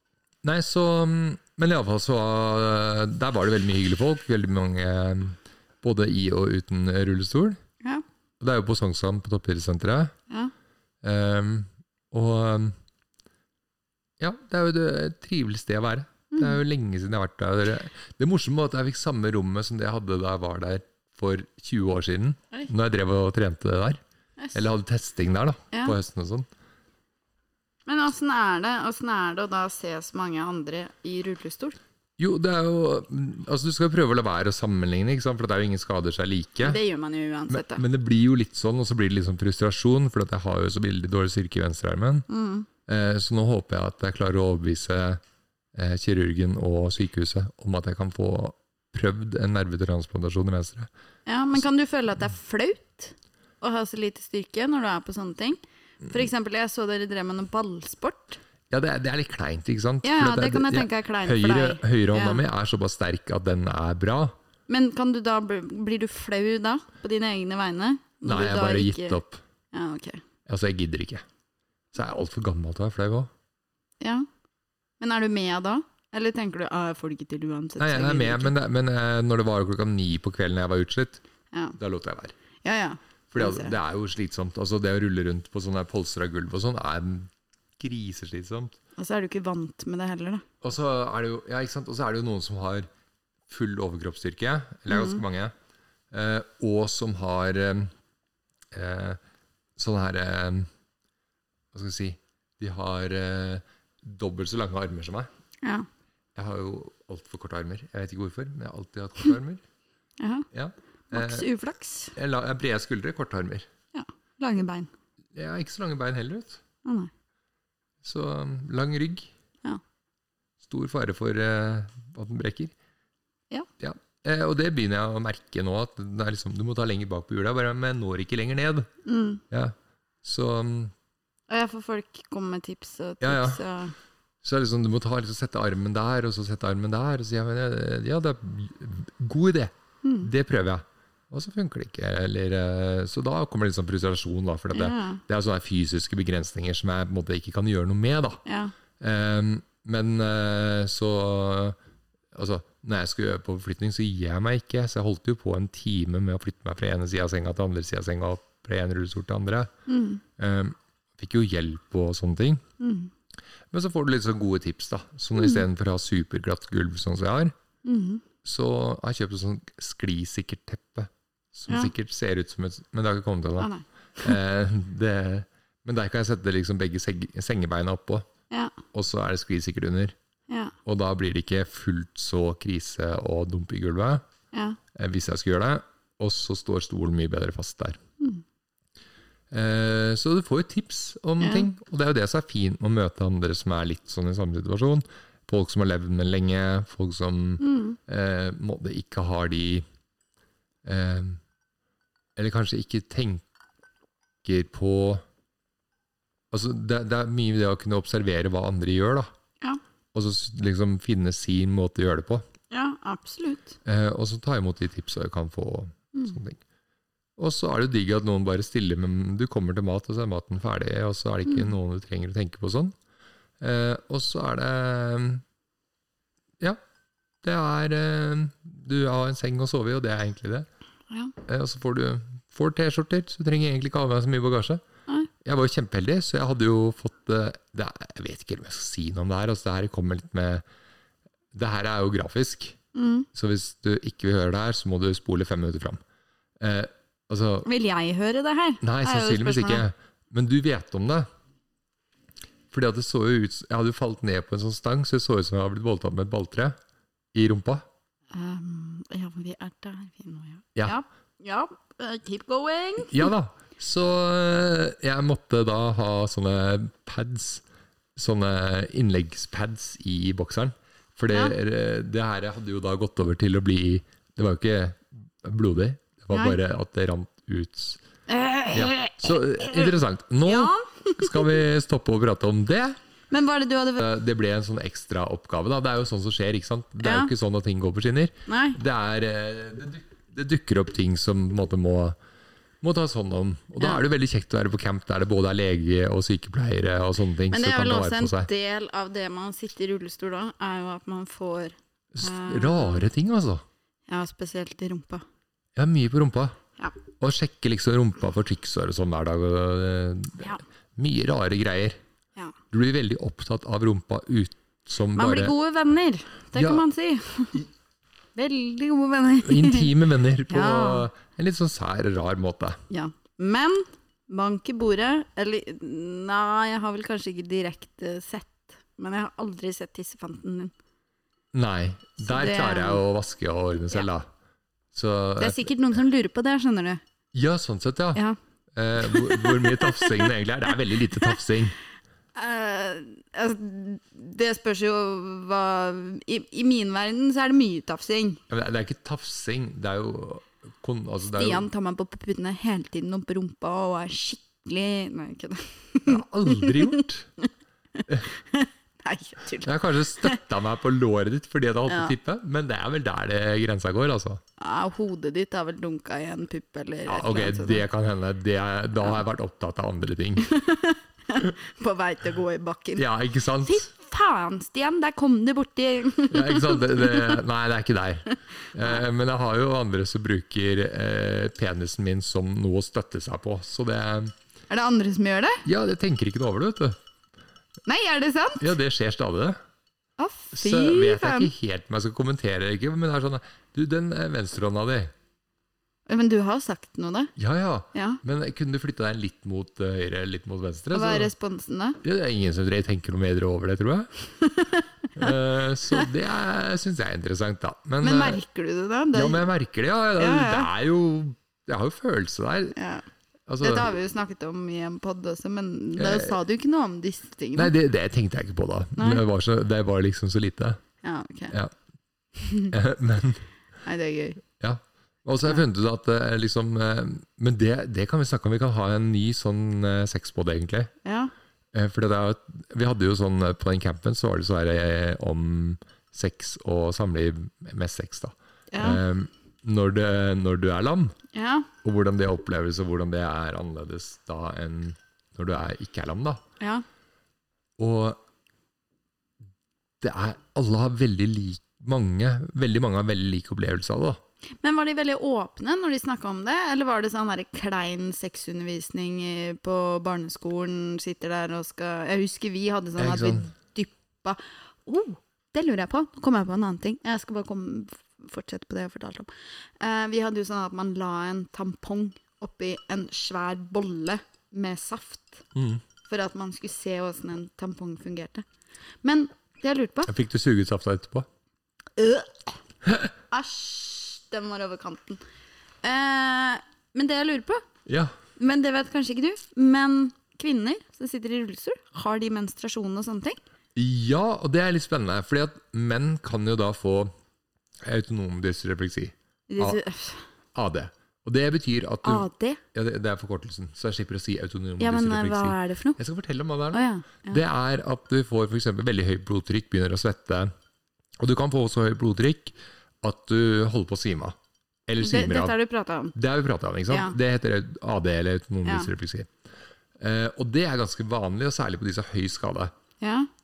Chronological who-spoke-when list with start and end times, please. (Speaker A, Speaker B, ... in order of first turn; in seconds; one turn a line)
Speaker A: 0.4-7.6
Speaker A: 8.4-10.1
Speaker A: 11.0-12.8
Speaker A: 14.2-24.0
Speaker B: 16.3-16.6
Speaker B: 24.4-24.6
Speaker A: 24.5-26.5
Speaker B: 27.9-31.8
Speaker A: 32.2-36.8
Speaker B: 36.6-37.8
Speaker A: 37.5-42.2
Speaker B: 42.3-42.7
Speaker A: 42.9-45.2
Speaker A: 45.7-50.9
Speaker B: 51.3-58.4
Speaker A: 58.7-64.3
Speaker B: 60.0-62.4
Speaker B: 64.7-69.2
Speaker A: 68.2-69.4
Speaker B: 69.7-70.2
Speaker A: 70.5-71.2
Speaker A: 71.9-73.3
Speaker B: 74.0-74.3
Speaker B: 75.0-78.5
Speaker A: 77.8-81.2
Speaker B: 81.5-81.8
Speaker A: 81.8-82.3
Speaker B: 82.6-83.7
Speaker A: 83.3-88.8
Speaker B: 89.0-90.4
Speaker A: 90.6-92.9
Speaker A: 93.5-95.5
Speaker B: 94.9-95.2
Speaker A: 96.1-97.9
Speaker A: 98.7-99.2
Speaker A: 99.8-100.7
Speaker A: 101.7-105.3
Speaker A: 106.3-109.6
Speaker B: 110.2-110.5
Speaker A: 110.5-111.5
Speaker B: 111.1-112.1
Speaker A: 112.1-113.7
Speaker B: 113.9-114.9
Speaker A: 115.3-116.6
Speaker B: 116.8-117.1
Speaker A: 118.0-119.3
Speaker A: 120.6-122.7
Speaker A: 123.8-128.9
Speaker B: 129.0-129.4
Speaker A: 129.5-130.9
Speaker B: 131.5-133.9
Speaker A: 133.2-133.6
Speaker A: 134.4-148.4
Speaker B: 140.0-140.3
Speaker B: 144.7-145.2
Speaker B: 148.4-148.7
Speaker A: 149.0-151.8
Speaker A: 152.3-159.7
Speaker B: 159.9-160.2
Speaker A: 160.4-162.6
Speaker B: 162.8-163.1
Speaker A: 163.7-167.5
Speaker B: 165.4-165.6
Speaker B: 167.8-168.2
Speaker A: 168.4-178.3
Speaker B: 173.6-174.3
Speaker B: 178.5-178.8
Speaker A: 178.9-180.1
Speaker B: 180.5-180.7
Speaker A: 180.8-184.2
Speaker B: 184.5-184.8
Speaker A: 184.9-188.0
Speaker A: 189.5-199.8
Speaker B: 191.4-191.7
Speaker B: 197.6-198.0
Speaker A: 200.8-201.4
Speaker A: 202.3-203.4
Speaker A: 204.4-205.2
Speaker A: 206.5-209.3
Speaker A: 210.1-212.4
Speaker B: 212.7-213.7
Speaker A: 213.8-216.6
Speaker A: 217.4-222.9
Speaker B: 221.4-221.7
Speaker A: 223.6-225.4
Speaker A: 227.4-230.7
Speaker A: 231.4-234.8
Speaker A: 235.4-240.6
Speaker A: 241.5-242.8
Speaker B: 242.9-243.3
Speaker A: 243.3-246.0
Speaker A: 246.6-247.7
Speaker B: 247.6-249.8
Speaker A: 248.8-251.3
Speaker A: 252.7-256.8
Speaker A: 257.3-257.9
Speaker B: 258.3-263.3
Speaker A: 263.1-267.6
Speaker A: 268.1-278.0
Speaker B: 271.3-271.6
Speaker B: 278.3-279.9
Speaker A: 278.7-283.0
Speaker B: 280.4-281.6
Speaker B: 283.3-284.0
Speaker A: 284.0-292.2
Speaker B: 287.0-287.3
Speaker B: 288.5-288.8
Speaker A: 292.8-298.5
Speaker B: 297.5-303.1
Speaker A: 302.1-303.6
Speaker B: 304.1-305.2
Speaker A: 305.8-306.6
Speaker A: 307.2-312.0
Speaker A: 312.7-315.5
Speaker B: 315.1-317.6
Speaker A: 316.5-316.8
Speaker B: 318.3-319.9
Speaker A: 319.4-322.8
Speaker B: 320.5-321.1
Speaker B: 322.9-330.7
Speaker A: 331.5-334.3
Speaker B: 332.2-333.0
Speaker A: 334.9-335.6
Speaker B: 335.4-337.0
Speaker A: 337.3-338.2
Speaker A: 338.7-341.8
Speaker B: 339.0-340.3
Speaker B: 342.3-348.4
Speaker A: 348.5-351.7
Speaker B: 351.4-357.0
Speaker A: 356.1-357.3
Speaker B: 358.0-360.4
Speaker A: 359.6-364.4
Speaker B: 361.9-362.1
Speaker B: 364.6-367.8
Speaker A: 367.1-370.5
Speaker B: 370.4-373.0
Speaker A: 372.9-373.8
Speaker B: 373.6-377.4
Speaker A: 376.3-384.3
Speaker B: 384.7-385.6
Speaker A: 385.6-387.0
Speaker B: 387.9-388.6
Speaker A: 388.6-389.6
Speaker B: 390.2-391.5
Speaker A: 390.5-395.1
Speaker B: 396.1-397.3
Speaker A: 397.4-401.3
Speaker B: 397.9-398.2
Speaker B: 400.9-402.0
Speaker A: 402.0-404.1
Speaker B: 404.4-405.3
Speaker A: 405.1-408.4
Speaker B: 408.0-409.4
Speaker A: 409.1-412.8
Speaker B: 410.2-410.7
Speaker B: 412.7-413.0
Speaker A: 413.5-413.9
Speaker B: 413.6-417.7
Speaker A: 416.0-416.4
Speaker A: 417.5-420.8
Speaker B: 418.9-419.2
Speaker B: 421.0-421.6
Speaker B: 422.4-422.7
Speaker A: 422.7-423.4
Speaker B: 423.8-424.4
Speaker A: 424.6-430.9
Speaker B: 431.0-431.3
Speaker A: 431.7-441.1
Speaker B: 438.7-439.0
Speaker B: 441.3-441.7
Speaker A: 441.8-446.4
Speaker B: 446.6-446.8
Speaker A: 447.8-448.2
Speaker A: 450.0-454.2
Speaker B: 454.6-475.4
Speaker A: 463.0-463.4
Speaker A: 475.5-475.8
Speaker B: 476.0-478.4
Speaker B: 479.0-480.1
Speaker A: 480.1-481.3
Speaker B: 482.0-482.5
Speaker A: 482.9-483.1
Speaker B: 483.3-485.2
Speaker B: 485.8-487.6
Speaker A: 487.9-488.1
Speaker B: 488.4-493.4
Speaker A: 493.8-497.1
Speaker A: 497.8-499.8
Speaker B: 499.5-500.2
Speaker A: 500.5-510.5
Speaker B: 502.0-502.6
Speaker B: 504.8-506.0
Speaker B: 506.7-507.4
Speaker A: 511.2-515.5
Speaker B: 515.0-516.1
Speaker A: 516.1-519.3
Speaker B: 516.9-517.1
Speaker B: 518.6-518.9
Speaker A: 520.0-522.7
Speaker B: 523.0-523.3